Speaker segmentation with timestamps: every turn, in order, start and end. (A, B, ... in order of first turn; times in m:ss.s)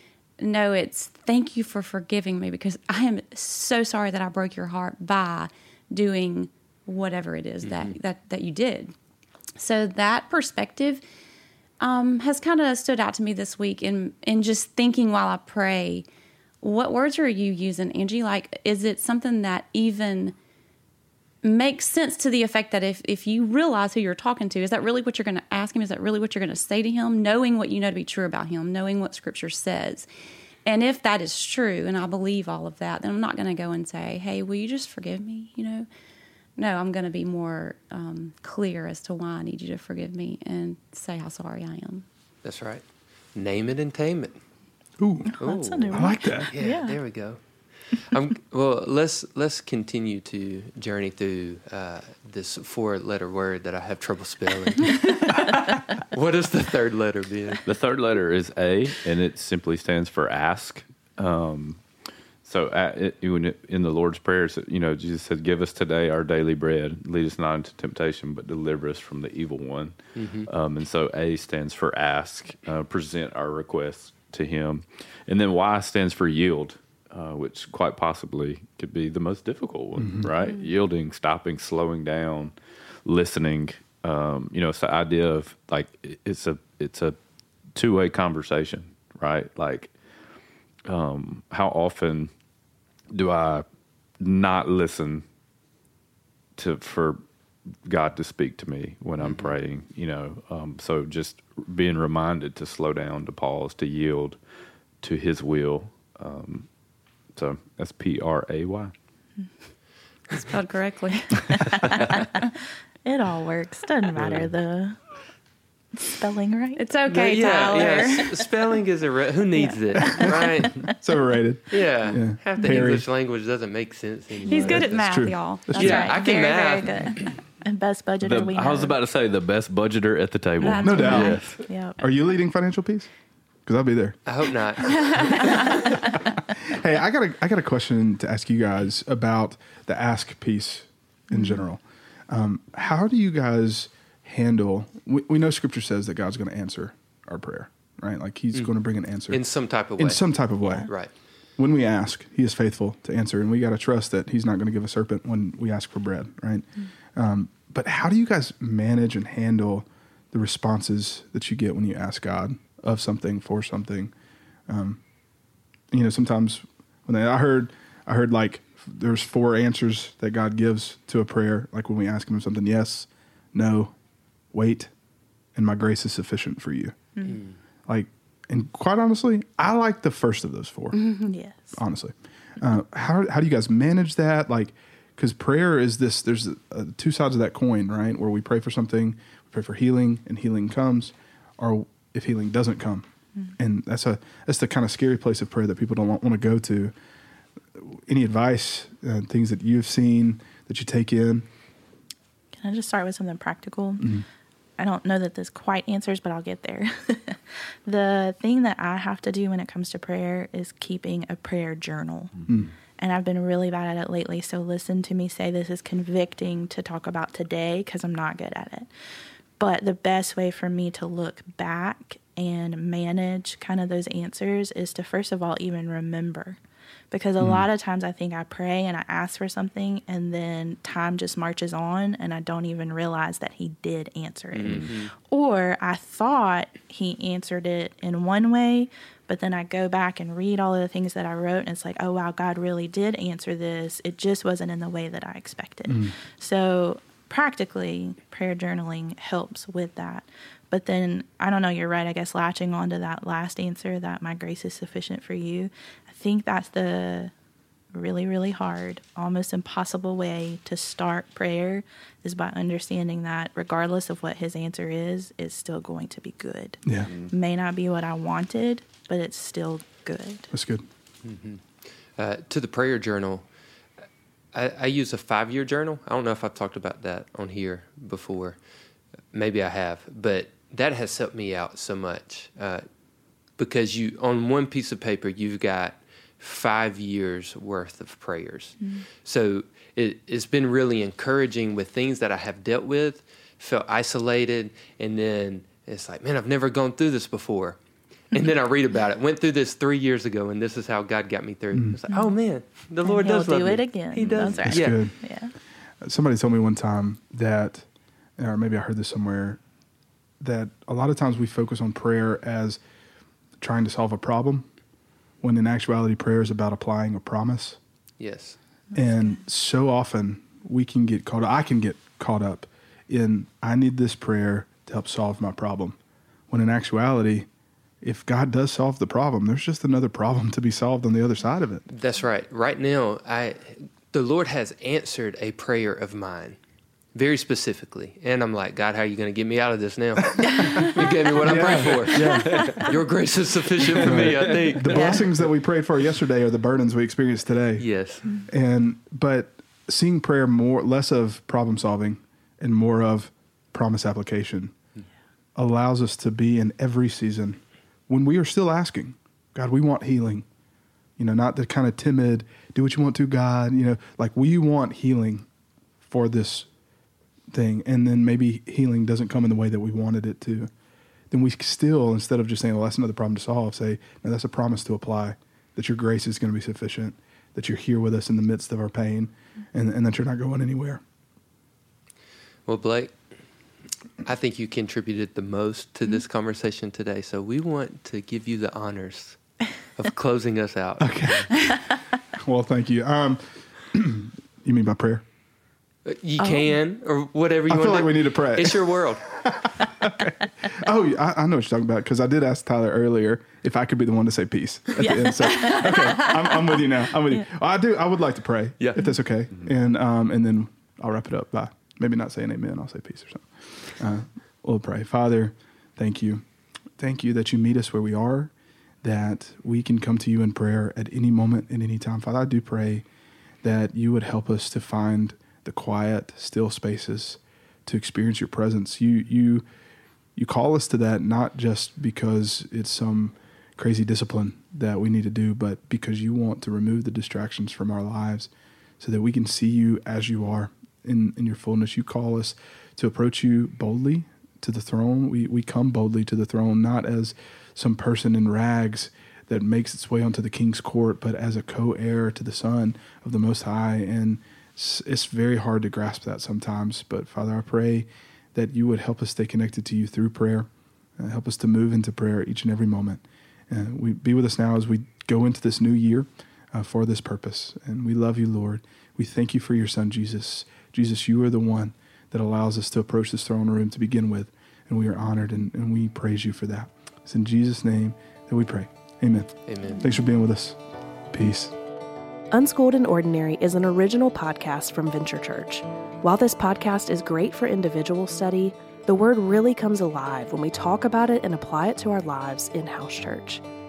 0:00.4-0:08.9 A
0:07.6-0:08.0 B
0:09.6-0:11.0 A
0:11.8-0:16.0 A
0:16.6-0:20.3 A
0:21.4-0:30.1 A
0:30.6-0:35.9 A
0:36.6-0:42.0 A
0:42.4-0:42.8 B
0:43.3-0:44.4 B
0:45.0-0:45.3 C
0:45.3-0:47.0 D
0:45.4-0:47.4 B
0:45.9-0:46.5 C
0:48.0-0:57.6 B
0:57.6-1:01.8 E
1:02.4-1:22.5 E
1:10.1-1:10.5 B
1:20.0-1:20.3 C
1:23.0-1:27.2 E
1:27.7-1:29.9 E
1:30.8-1:32.3 E
1:33.1-1:33.6 E
1:34.2-1:35.2 E
1:36.6-1:37.2 E
1:37.8-1:44.4 E
1:39.2-1:39.5 B
1:45.0-1:46.7 E
1:47.3-1:48.9 E
1:50.3-1:52.4 A
1:51.8-1:52.2 D
1:53.0-1:55.0 D
1:54.2-1:54.5 E
1:56.0-1:56.8 D
1:56.8-1:58.4 A
1:57.1-2:00.9 B
1:59.5-2:00.8 D
2:00.2-2:03.1 C
2:01.7-2:05.0 B
2:04.4-2:06.3 A
2:04.5-2:06.1 C
2:05.7-2:07.0 B
2:05.8-2:09.0 D
2:08.2-2:11.6 E
2:10.6-2:11.4 A
2:10.8-2:11.4 C
2:11.0-2:12.0 D
2:12.0-2:13.1 C
2:13.6-2:14.3 C
2:14.3-2:15.6 B
2:14.9-2:15.9 A
2:14.9-2:29.4 C
2:21.3-2:21.6 D
2:29.3-2:30.2 B
2:30.0-2:30.9 C
2:31.6-2:44.1 C
2:44.7-2:45.0 C
2:45.9-2:53.9 C
2:54.5-2:54.9 C
2:55.5-2:57.0 C
2:57.3-2:57.5 B
2:57.9-3:01.2 C
3:01.2-3:01.8 D
3:01.7-3:16.9 C
3:17.8-3:21.5 C
3:22.5-3:24.2 D
3:24.0-3:24.2 C
3:24.8-3:32.4 D
3:33.0-3:38.9 D
3:39.6-3:46.6 D
3:47.1-4:17.3 D
3:54.5-3:55.1 B
4:05.9-4:06.1 C
4:17.9-4:30.5 D
4:26.8-4:27.1 C
4:30.5-4:30.8 C
4:31.2-4:31.6 B
4:32.2-4:33.4 B
4:34.5-4:38.6 B
4:39.3-4:42.8 B
4:43.6-4:57.8 B
4:58.3-5:05.0 B
5:03.0-5:05.5 D
5:04.2-5:05.1 C
5:06.0-5:09.6 C
5:10.4-5:12.8 C
5:13.6-5:14.7 C
5:15.4-5:17.8 C
5:18.2-5:18.6 B
5:18.9-5:26.0 C
5:26.5-5:27.5 C
5:28.0-5:31.8 C
5:31.9-5:36.6 B
5:37.1-5:45.4 B
5:40.3-5:42.9 C
5:44.0-5:47.9 C
5:44.9-5:45.2 D
5:47.8-5:48.2 B
5:48.5-5:54.8 C
5:55.6-6:00.4 C
6:01.2-6:05.4 C
6:06.0-6:06.7 C
6:07.5-6:10.7 C
6:11.3-6:21.0 C
6:22.7-6:23.2 B
6:24.2-6:31.5 B
6:31.0-6:31.7 C
6:32.3-6:35.2 C
6:36.0-6:39.3 B
6:36.4-6:36.7 D
6:37.7-6:56.4 C
6:45.0-6:46.8 D
6:57.0-6:58.5 C
6:59.0-7:03.0 C
7:03.6-7:09.6 C
7:10.4-8:00.8 C
7:59.7-8:00.0 B
8:01.3-8:01.7 C
8:02.5-8:13.6 F